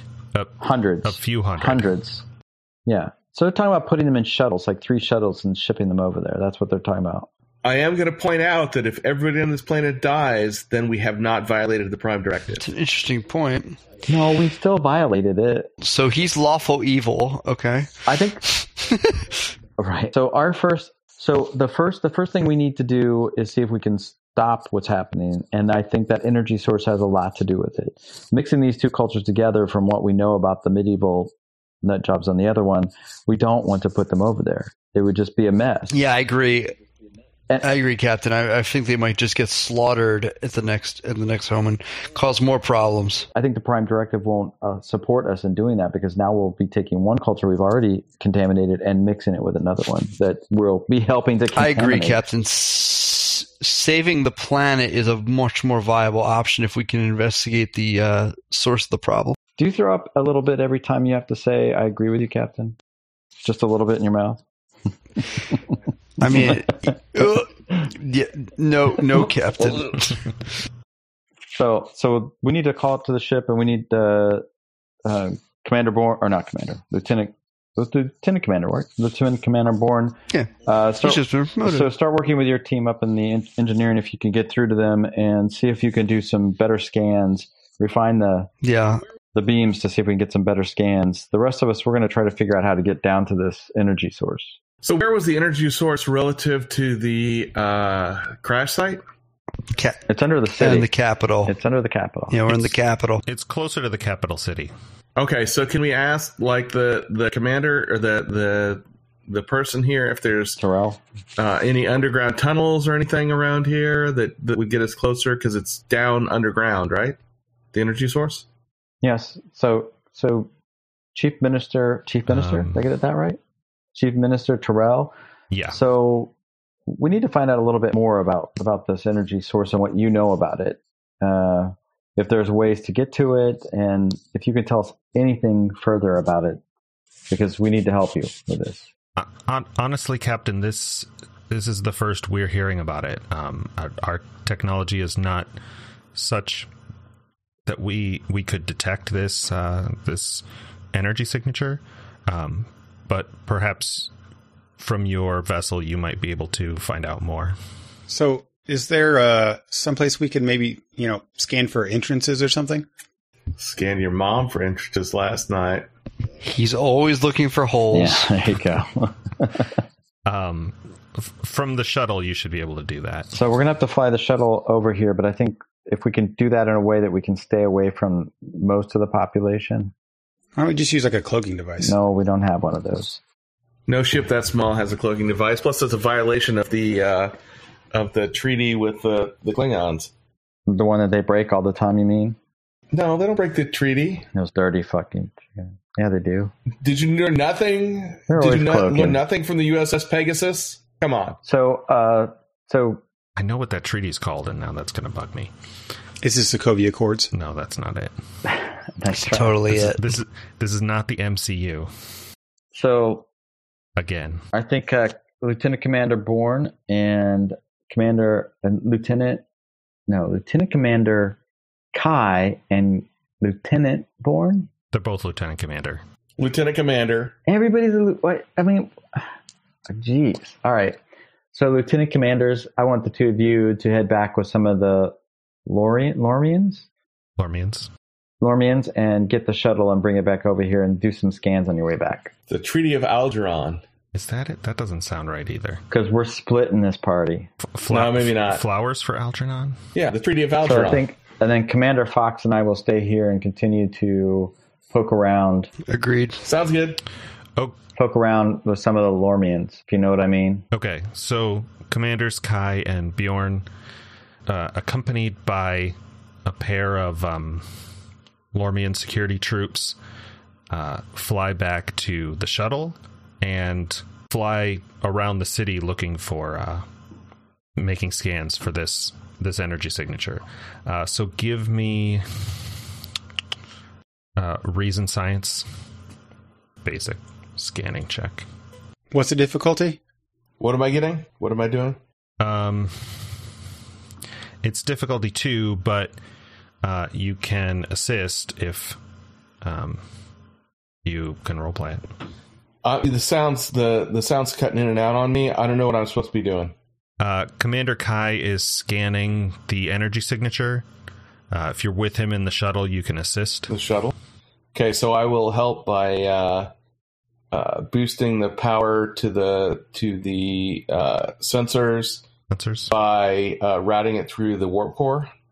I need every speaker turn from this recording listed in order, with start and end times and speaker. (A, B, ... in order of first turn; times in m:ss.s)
0:00.4-0:01.9 A
0:00.6-0:02.2 B
0:02.9-0:07.3 B
0:07.6-0:12.6 C
0:12.6-0:13.8 D
0:14.1-0:15.7 B
0:15.8-0:18.0 D
0:18.1-0:18.4 B
0:18.6-0:19.2 D
0:19.8-0:35.9 B
0:35.9-0:36.8 D
0:37.6-0:43.3 D
0:43.3-0:52.2 B
0:51.5-0:59.4 D
0:59.6-1:02.8 B
1:03.4-1:04.4 B
1:06.2-1:10.2 D
1:06.2-1:06.6 B
1:11.5-1:14.4 B
1:15.0-1:28.5 B
1:21.0-1:21.9 D
1:28.6-1:29.0 D
1:29.3-1:34.6 B
1:34.8-1:39.0 C
1:40.1-1:40.9 B
1:40.6-1:41.5 D
1:41.4-1:42.6 B
1:42.3-1:43.2 D
1:43.3-1:44.7 A
1:45.2-1:50.6 C
1:50.6-1:51.0 B
1:51.4-1:57.2 C
1:57.7-1:58.4 C
1:59.0-2:00.5 B
2:01.2-2:03.4 B
2:02.3-2:02.8 A
2:03.9-2:05.1 B
2:05.5-2:05.8 A
2:05.7-2:06.3 B
2:06.9-2:16.6 B
2:17.3-2:18.9 B
2:19.2-2:25.5 A
2:26.2-2:26.7 A
2:27.7-2:34.1 A
2:34.8-2:37.6 A
2:38.1-2:42.9 E
2:43.6-2:45.9 C
2:46.4-2:48.3 D
2:47.9-2:49.8 B
2:50.3-2:53.3 A
2:53.3-2:59.9 B
3:00.6-3:02.0 E
3:01.8-3:03.2 B
3:03.9-3:07.3 C
3:07.9-3:10.1 C
3:10.7-3:12.4 B
3:12.9-3:14.3 C
3:14.3-3:16.5 B
3:16.8-3:21.4 C
3:18.3-3:19.2 B
3:21.4-3:23.0 B
3:23.4-3:25.5 A
3:26.2-3:27.3 E
3:27.3-3:28.1 A
3:28.5-3:29.6 B
3:29.1-3:30.0 D
3:29.7-3:31.9 A
3:32.7-3:33.3 B
3:34.0-3:34.4 A
3:34.5-3:39.4 B
3:40.1-3:41.4 B
3:41.9-3:44.7 B
3:44.9-3:46.0 A
3:46.4-3:47.4 C
3:47.5-3:49.3 B
3:49.9-3:51.0 B
3:51.5-3:55.2 B
3:55.7-3:56.9 B
3:57.4-3:57.9 A
3:58.4-4:02.3 B
4:02.5-4:03.8 C
4:04.1-4:05.8 A
4:05.9-4:07.5 B
4:07.7-4:09.8 A
4:07.9-4:08.6 C
4:10.0-4:11.0 C
4:10.6-4:15.7 B
4:15.9-4:16.4 D
4:16.4-4:17.0 C
4:18.0-4:20.7 B
4:20.7-4:23.7 A
4:24.5-4:27.7 A
4:28.5-4:30.0 A
4:30.7-4:36.8 A
4:37.8-4:42.6 A
4:44.4-4:45.6 A
4:46.8-4:48.5 A
4:49.1-4:50.0 E
4:50.6-4:52.0 C
4:52.4-4:53.1 A
4:54.6-4:56.2 A
4:56.8-4:59.0 A
4:59.6-5:00.0 A
5:01.0-5:02.1 A
5:02.8-5:06.8 C
5:07.2-5:10.8 A
5:11.5-5:13.7 A
5:13.7-5:14.1 C
5:14.7-5:16.7 C
5:17.5-5:22.2 C
5:22.5-5:22.9 A
5:22.9-5:25.3 C